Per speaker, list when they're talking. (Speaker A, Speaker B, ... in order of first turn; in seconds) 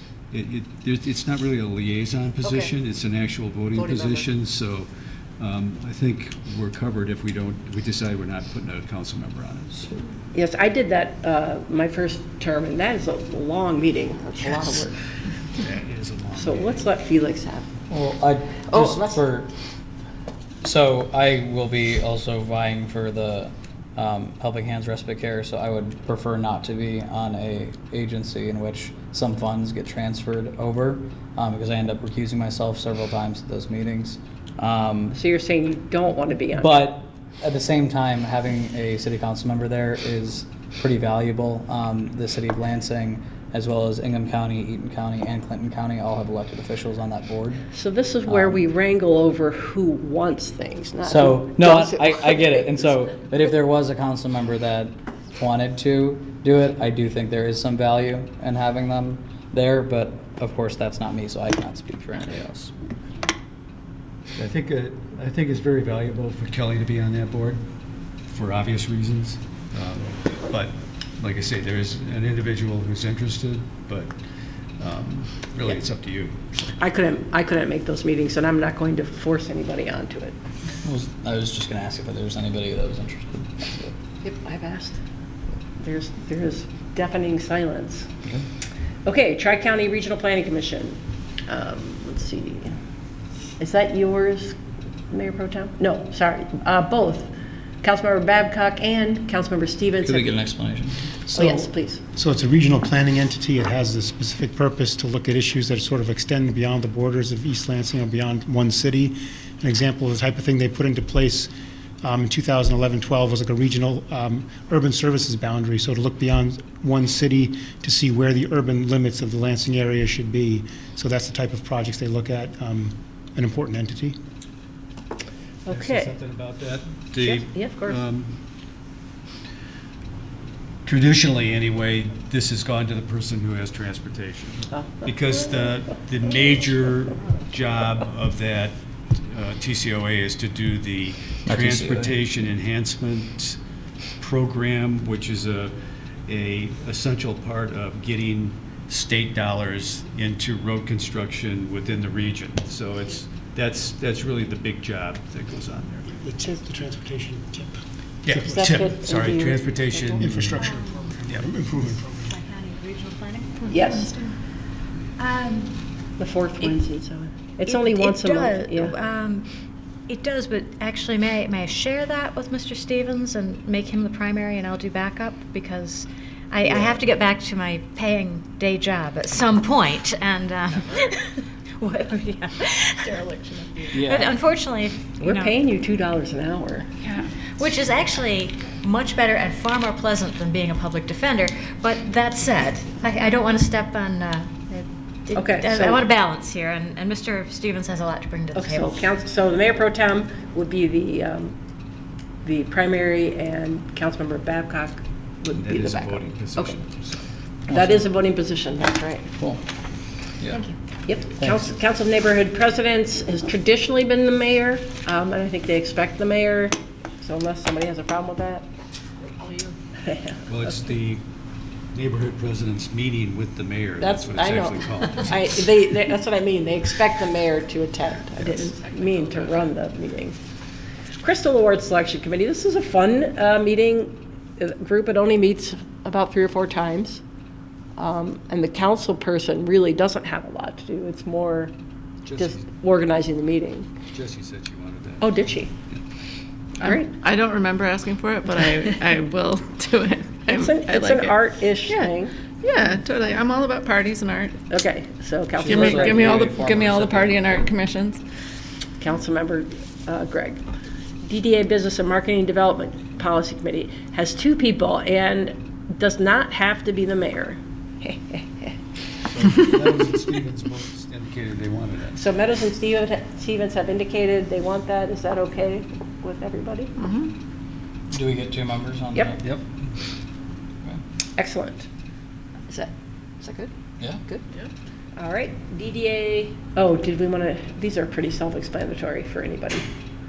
Speaker A: 0.3-4.9, 5.4-9.9, 15.6-16.9, 64.4-67.6, 68.3-74.1, 74.8-76.8, 125.7-128.4, 130.8-143.6, 144.2-145.8, 146.3-156.2, 158.2-160.6, 205.5-207.3, 220.5-221.2, 221.9-225.4, 242.2-242.7, 244.1-246.0, 269.2-272.2, 279.4-279.7
Speaker B: 10.3-15.0, 16.3-17.7, 18.7-19.1, 35.1-36.8, 47.7-52.6, 76.8-80.3, 84.2-85.0, 85.8-88.1, 89.0-92.8, 93.6-94.6, 95.1-100.3, 101.3-102.0, 125.7-126.1, 127.2-128.0, 134.7-135.1, 158.3-160.3, 163.7-164.1, 166.2-168.9, 176.7-176.9, 185.2-186.9, 195.3-196.1, 198.6-201.6, 202.4-206.8, 207.7-209.3, 211.1-218.7, 220.0-220.4, 224.0-230.4, 231.2-237.2, 238.0-241.7, 242.4-243.9, 245.2-245.7, 246.8-247.1, 250.5-252.3, 254.7-256.3, 259.0-260.6, 261.2-268.8, 272.2-276.9, 281.4-281.9, 283.4-283.7, 285.2-289.9
Speaker C: 17.9-19.5, 20.6-35.2, 36.5-47.6, 48.3-48.6, 51.0-62.7, 80.8-83.9, 100.0-101.1, 141.4-142.1, 183.9-184.3, 207.7-208.0, 211.3-211.7, 255.6-257.6, 278.1-279.6
Speaker D: 101.3-111.5, 112.0-124.2, 156.2-158.8, 160.2-162.4
Speaker E: 160.6-161.1, 161.8-164.4, 165.2-165.8, 167.7-169.5, 170.1-185.5, 187.6-199.0
Speaker F: 187.0-187.3, 219.4-219.7, 246.8-254.6, 255.7-258.2, 277.0-277.3